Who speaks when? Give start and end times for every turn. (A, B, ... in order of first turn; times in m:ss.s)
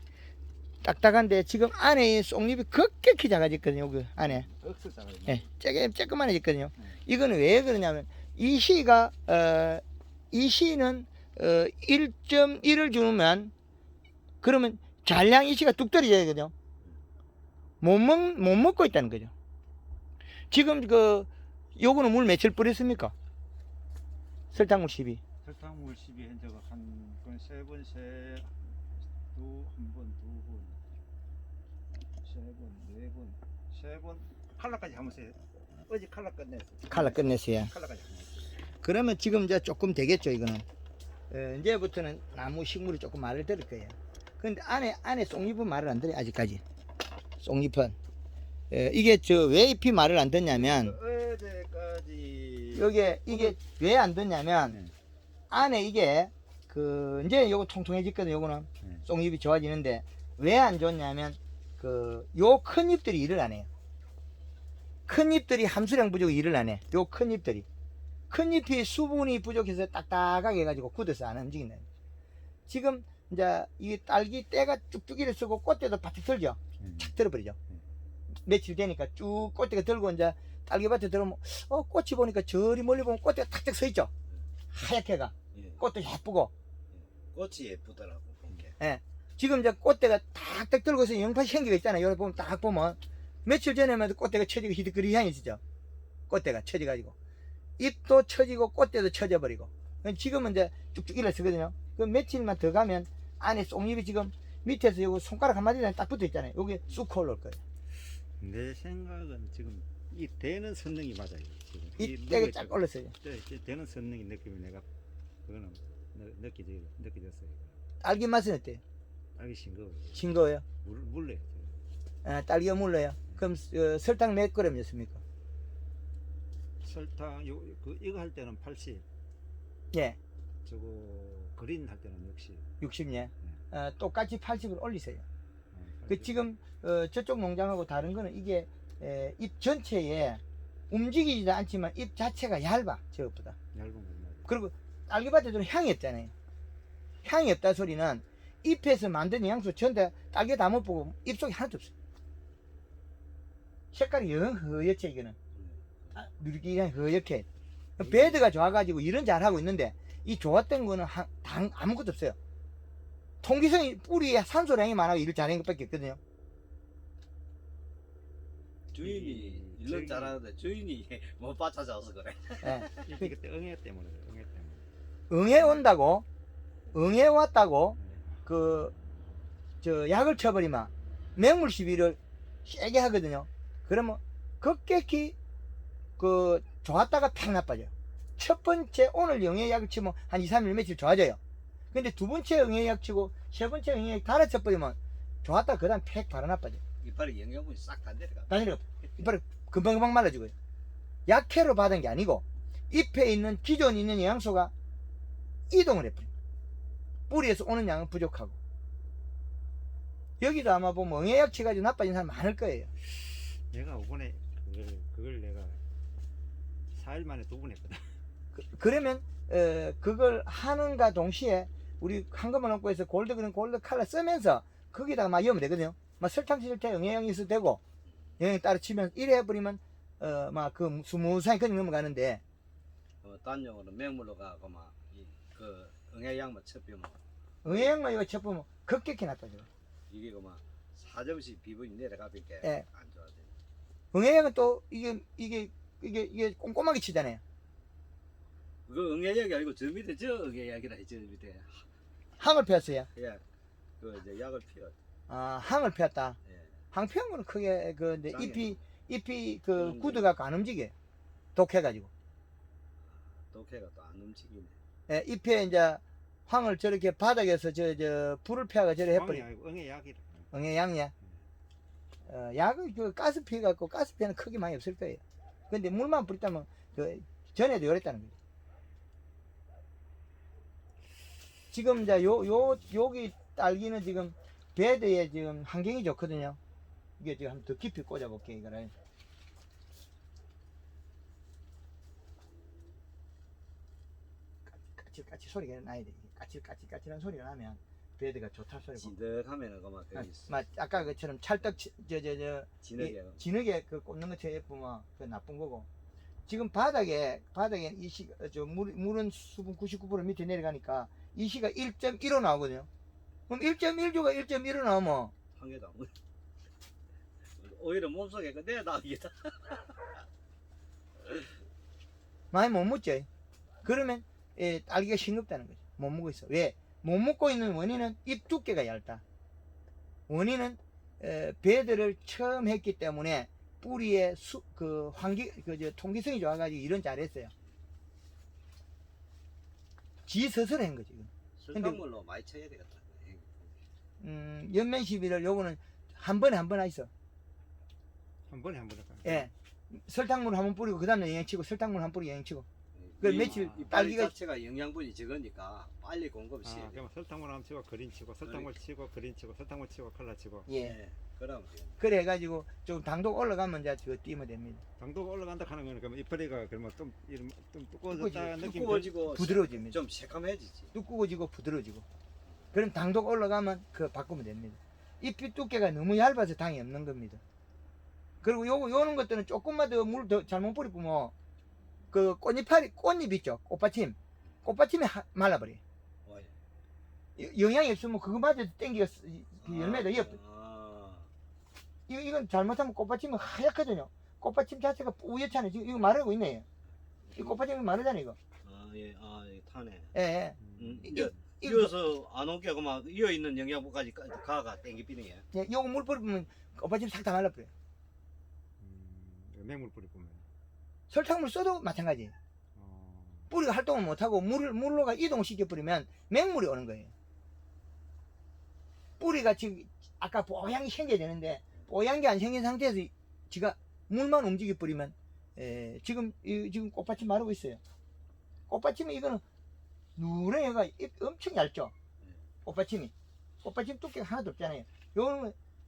0:00.8-0:04.5 A
0:04.2-0:05.5 B
0:05.2-0:13.5 A
0:14.4-0:16.5 A
0:17.8-0:19.3 A
0:20.5-0:23.1 A
0:24.5-0:25.2 A
0:25.4-0:31.0 B
0:32.2-0:38.6 B
0:36.9-0:37.7 A
0:38.8-0:40.6 A
0:41.3-0:46.6 A
0:47.4-0:48.0 A
0:48.7-0:51.0 A
0:50.5-0:53.5 B
0:52.7-0:54.8 A
0:55.5-1:03.7 A
1:05.1-1:07.6 A
1:08.3-1:11.8 A
1:12.7-1:17.6 A
1:16.8-1:17.2 B
1:18.4-1:24.1 A
1:24.7-1:26.5 A
1:25.5-1:25.8 C
1:26.9-1:28.7 C
1:28.8-1:35.6 A
1:36.3-1:37.1 A
1:37.8-1:47.6 A
1:48.4-1:54.9 B
1:52.0-1:53.1 A
1:55.4-1:57.8 B
1:58.0-1:58.8 A
1:59.4-2:01.8 B
2:00.1-2:00.6 A
2:02.2-2:05.2 A
2:06.8-2:09.0 B
2:09.9-2:10.2 A
2:10.6-2:12.6 B
2:12.8-2:15.2 A
2:15.7-2:16.4 B
2:16.1-2:23.6 A
2:23.7-2:24.5 B
2:24.5-2:26.3 A
2:27.2-2:31.9 A
2:33.9-2:35.4 A
2:35.5-2:36.1 C
2:36.1-2:37.4 A
2:38.0-2:42.4 A
2:38.0-2:38.4 C
2:43.4-2:46.2 A
2:48.9-2:53.1 C
2:49.0-2:50.4 B
2:52.6-2:53.3 A
2:52.9-2:54.9 B
2:55.3-2:56.2 A
2:56.9-2:58.9 A
2:58.0-2:58.4 B
2:59.8-3:05.3 A
3:06.2-3:11.4 A
3:11.9-3:16.8 A
3:17.0-3:18.5 C
3:18.5-3:20.5 A
3:21.3-3:24.7 A
3:25.7-3:26.3 A
3:27.3-3:28.6 A
3:30.4-3:32.9 A
3:33.1-3:35.8 B
3:36.9-3:38.1 B
3:38.5-3:47.8 A
3:48.4-3:52.4 A
3:53.2-3:57.9 C
3:57.6-3:59.7 A
4:00.1-4:03.5 C
4:04.1-4:07.4 A
4:08.9-4:11.9 C
4:12.4-4:13.1 A
4:13.1-4:13.4 C
4:14.0-4:14.9 C
4:15.3-4:16.4 A
4:16.4-4:16.7 C
4:16.9-4:20.9 A
4:18.3-4:18.8 C
4:19.8-4:20.3 C
4:21.5-4:22.1 A
4:23.0-4:24.8 C
4:25.1-4:29.4 A
4:29.1-4:30.5 B
4:30.5-4:31.1 A
4:32.2-4:38.3 A
4:41.7-4:46.6 A
4:47.2-4:48.9 A
4:54.7-4:59.1 A
4:59.0-5:01.1 C
5:00.1-5:05.9 A
5:02.8-5:03.4 C
5:06.5-5:12.9 A
5:13.5-5:15.3 A
5:15.6-5:16.1 C
5:17.6-5:20.1 C
5:22.5-5:23.3 A
5:23.8-5:29.2 A
5:30.3-5:37.5 A
5:40.3-5:42.0 A
5:41.6-5:43.7 C
5:44.2-5:47.1 A
5:48.5-5:49.5 B
5:49.2-5:52.6 A
5:52.9-5:57.0 C
5:53.2-5:54.3 A
5:53.3-5:53.9 B
5:56.6-6:00.7 B
5:58.4-5:58.7 C
6:00.7-6:01.0 A
6:00.8-6:02.0 C
6:02.0-6:04.8 A
6:05.0-6:09.2 B
6:08.1-6:08.6 A
6:08.5-6:10.9 C
6:09.2-6:10.0 A
6:10.9-6:12.0 A
6:12.7-6:17.4 A
6:18.4-6:21.3 A
6:22.1-6:25.8 A
6:26.2-6:26.5 C
6:27.4-6:30.4 A
6:29.6-6:31.3 C
6:32.1-6:36.6 A
6:37.2-6:37.6 C
6:37.4-6:38.4 A
6:38.6-6:40.1 C
6:40.1-6:41.9 A
6:40.6-6:41.1 B
6:40.8-6:45.5 C
6:45.5-6:47.7 A
6:48.8-6:50.4 B
6:51.1-6:52.3 A
6:52.7-6:53.5 B
6:53.5-6:57.1 A
6:59.2-7:07.8 A
7:08.7-7:09.4 A
7:10.2-7:11.9 A
7:12.6-7:15.6 A